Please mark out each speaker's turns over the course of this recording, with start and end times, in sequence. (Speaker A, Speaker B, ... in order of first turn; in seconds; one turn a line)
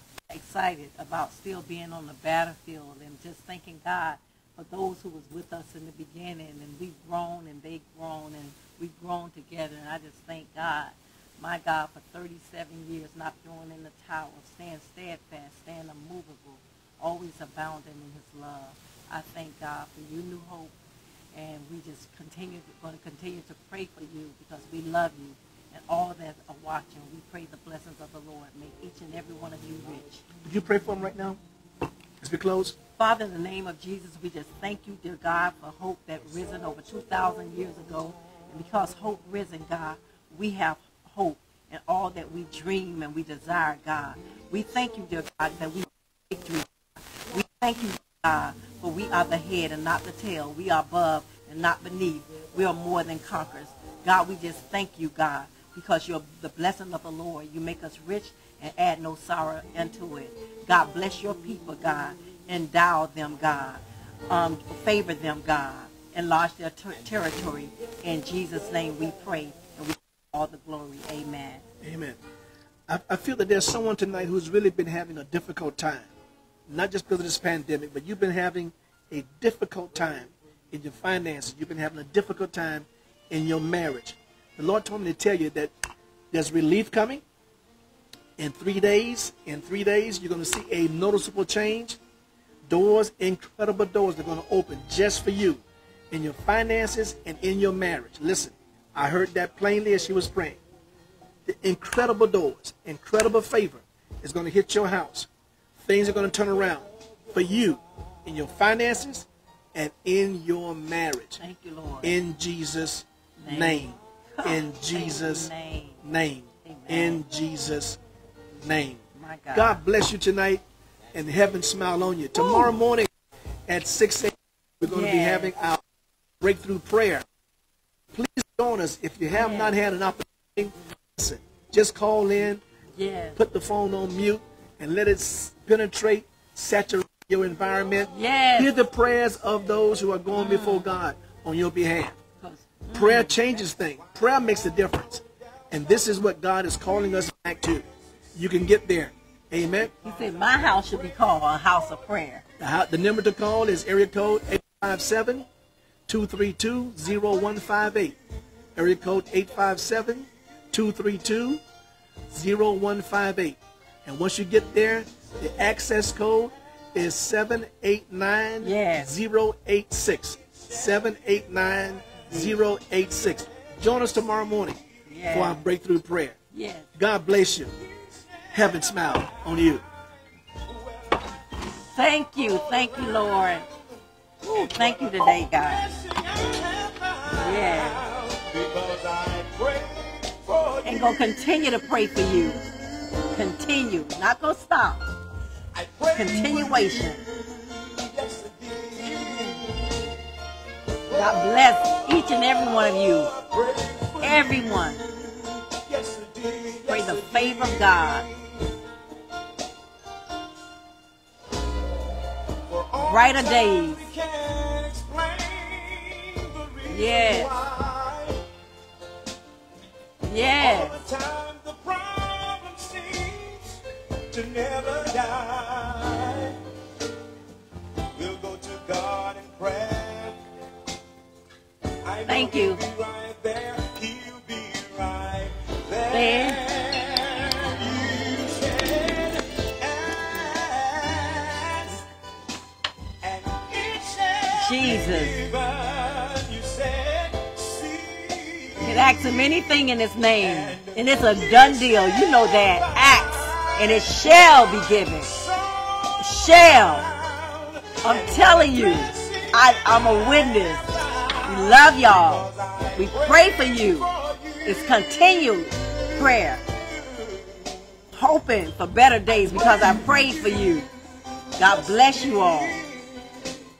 Speaker A: 0.3-20.7
Speaker A: 21.3-30.3
Speaker B: 30.4-31.4
Speaker B: 32.2-32.8
Speaker A: 33.0-71.6
Speaker B: 71.8-72.2
Speaker B: 72.9-76.1
Speaker B: 76.7-85.7
Speaker B: 86.3-87.2
Speaker B: 88.4-92.0
Speaker B: 92.7-100.6
Speaker B: 101.5-111.4
Speaker A: 111.4-112.2
Speaker B: 112.0-115.5
Speaker A: 113.4-116.0
Speaker B: 116.0-118.0
Speaker A: 116.6-117.2
Speaker B: 118.6-119.0
Speaker A: 119.1-119.8
Speaker B: 119.5-123.1
Speaker A: 122.4-122.7
Speaker B: 123.7-125.8
Speaker A: 124.9-125.6
Speaker B: 126.4-127.2
Speaker B: 128.1-132.6
Speaker A: 129.3-129.8
Speaker A: 133.0-133.4
Speaker B: 133.3-142.2
Speaker A: 138.1-138.7
Speaker A: 140.3-140.9
Speaker A: 142.4-143.4
Speaker B: 142.9-149.9
Speaker A: 149.8-152.4
Speaker C: 150.3-150.8
Speaker B: 152.6-155.5
Speaker B: 156.1-158.2
Speaker B: 158.8-161.6
Speaker B: 162.3-176.3
Speaker A: 168.6-169.1
Speaker A: 175.1-175.6
Speaker A: 176.5-176.9
Speaker B: 176.9-177.7
Speaker C: 178.0-179.3
Speaker B: 178.5-179.8
Speaker C: 180.7-181.2
Speaker A: 181.6-183.7
Speaker C: 182.4-183.7
Speaker A: 184.4-185.9
Speaker C: 184.5-191.3
Speaker A: 187.3-188.0
Speaker A: 190.8-192.6
Speaker A: 193.3-195.1
Speaker C: 195.7-199.9
Speaker A: 196.1-197.2
Speaker C: 201.1-208.5
Speaker A: 201.1-203.3
Speaker A: 204.2-205.0
Speaker A: 206.8-208.2
Speaker C: 212.7-218.4
Speaker A: 213.0-214.0
Speaker A: 216.9-217.5
Speaker A: 220.2-221.0
Speaker C: 220.6-223.8
Speaker C: 224.3-226.6
Speaker C: 228.2-230.4
Speaker C: 232.0-242.0
Speaker A: 232.2-232.8
Speaker A: 236.1-236.6
Speaker C: 243.2-249.5
Speaker A: 244.5-245.4
Speaker A: 248.8-255.3
Speaker C: 250.4-268.0
Speaker A: 256.2-257.1
Speaker A: 258.0-264.1
Speaker A: 264.6-266.6
Speaker A: 268.1-270.9
Speaker C: 269.4-273.3
Speaker A: 271.6-272.8